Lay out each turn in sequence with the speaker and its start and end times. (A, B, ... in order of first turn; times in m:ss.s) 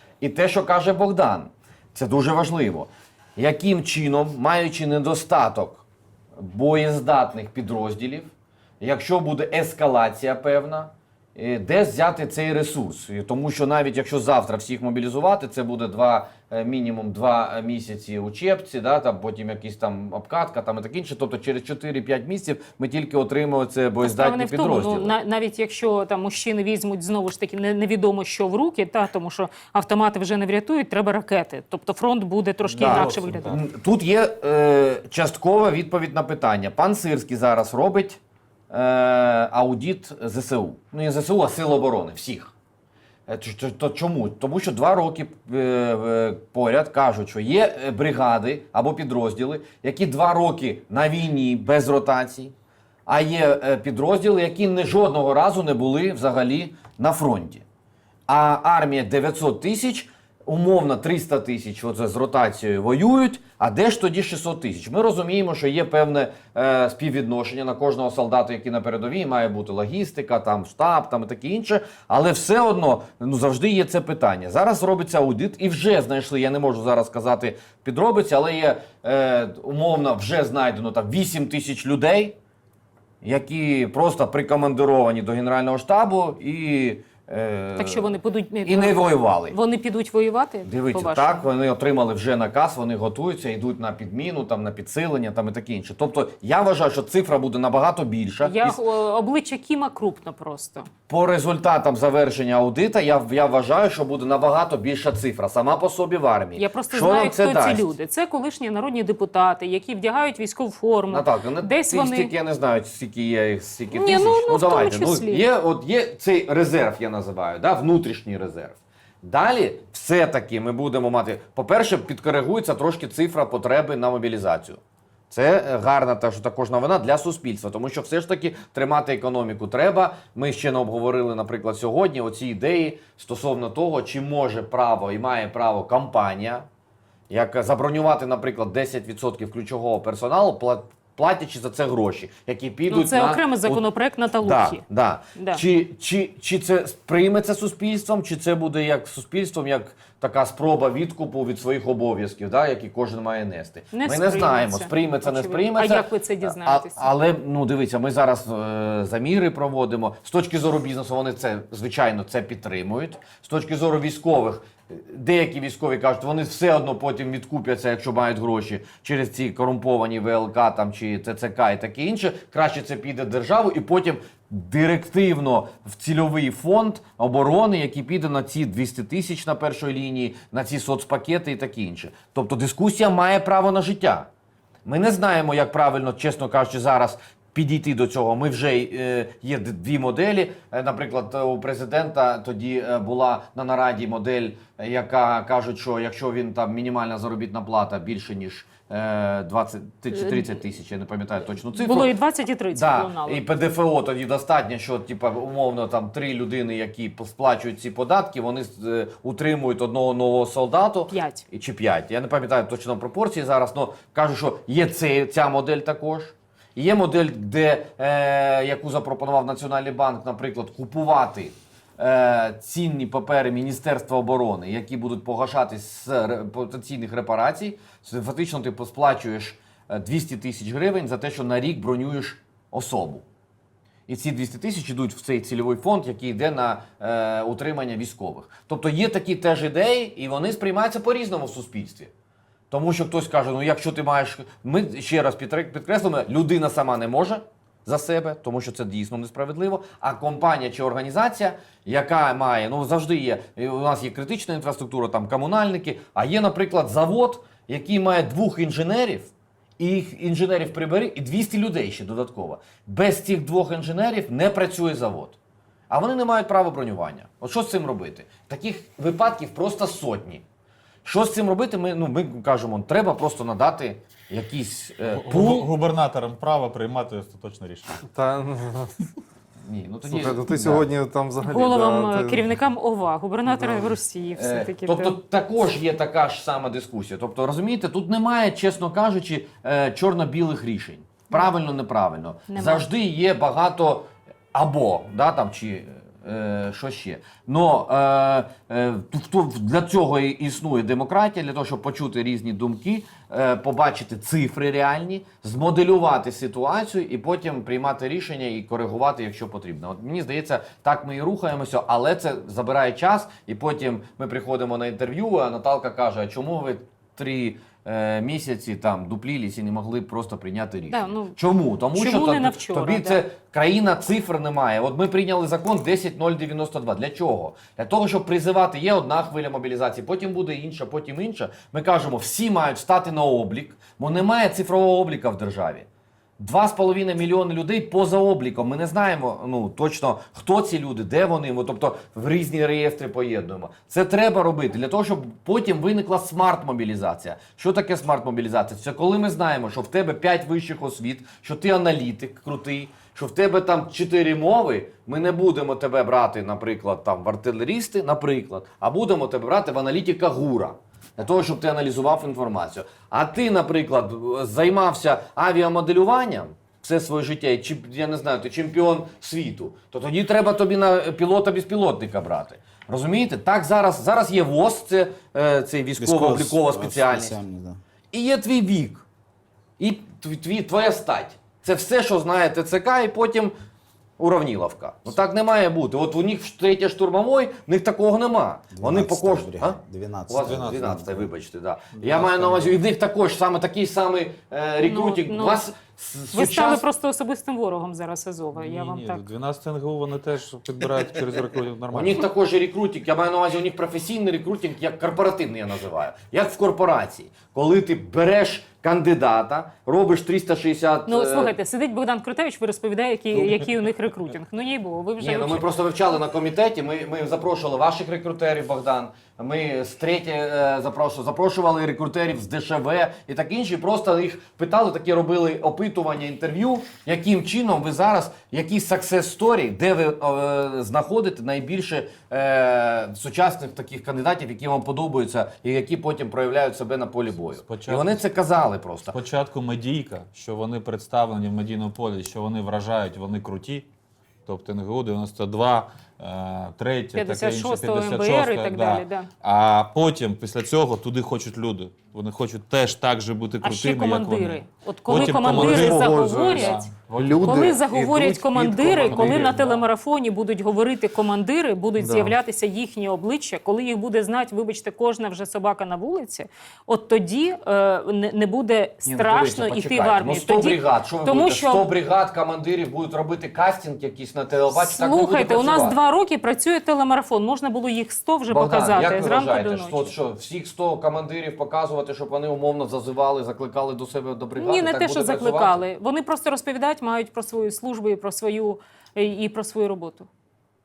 0:00.2-0:05.8 A
0:06.4-0:25.2 A
0:24.0-0:33.6 B
0:32.6-0:33.6 C
0:32.8-0:38.2 A
0:38.7-0:42.5 A
0:43.3-0:52.5 A
0:53.1-0:57.6 A
0:58.3-1:22.4 A
1:23.2-1:28.1 A
1:27.8-1:31.4 B
1:28.6-1:29.6 A
1:30.6-1:38.8 A
1:38.4-1:40.9 B
1:41.1-1:47.9 A
1:46.6-1:52.3 B
1:51.1-2:16.6 A
1:53.9-1:55.4 B
2:17.3-2:23.8 A
2:22.9-2:24.8 B
2:24.4-3:04.3 A
2:25.3-2:25.6 B
2:33.9-2:37.1 B
3:04.8-3:22.1 A
3:20.1-3:20.4 B
3:21.7-3:23.4 B
3:22.7-3:53.2 A
3:31.1-3:31.4 B
3:54.1-4:02.1 A
4:02.7-4:25.4 A
4:25.9-4:30.4 A
4:31.0-4:35.7 A
4:35.1-4:37.9 C
4:38.1-4:38.9 D
4:39.6-4:40.9 A
4:40.1-4:42.4 D
4:41.4-4:45.1 B
4:44.3-5:35.8 A
4:52.5-4:52.8 B
5:20.9-5:21.3 B
5:21.9-5:23.2 B
5:36.4-6:17.4 A
6:16.0-6:17.8 E
6:18.1-6:19.0 A
6:19.8-6:23.5 A
6:24.2-6:36.8 A
6:28.8-6:29.2 E
6:29.2-6:29.8 D
6:29.9-6:31.2 E
6:30.4-6:30.8 C
6:32.1-6:32.5 C
6:34.8-6:35.7 B
6:36.3-6:39.2 B
6:38.5-6:42.3 C
6:41.9-6:51.5 A
6:51.1-6:55.6 B
6:55.2-7:19.2 A
7:17.5-7:18.2 C
7:19.1-7:23.9 C
7:24.4-7:37.6 C
7:27.1-7:29.3 B
7:33.6-7:36.8 B
7:35.2-7:39.5 D
7:37.4-7:51.9 B
7:39.0-7:39.8 C
7:49.0-7:56.0 A
7:54.7-8:00.1 B
7:58.5-8:05.8 A
8:04.6-8:10.3 B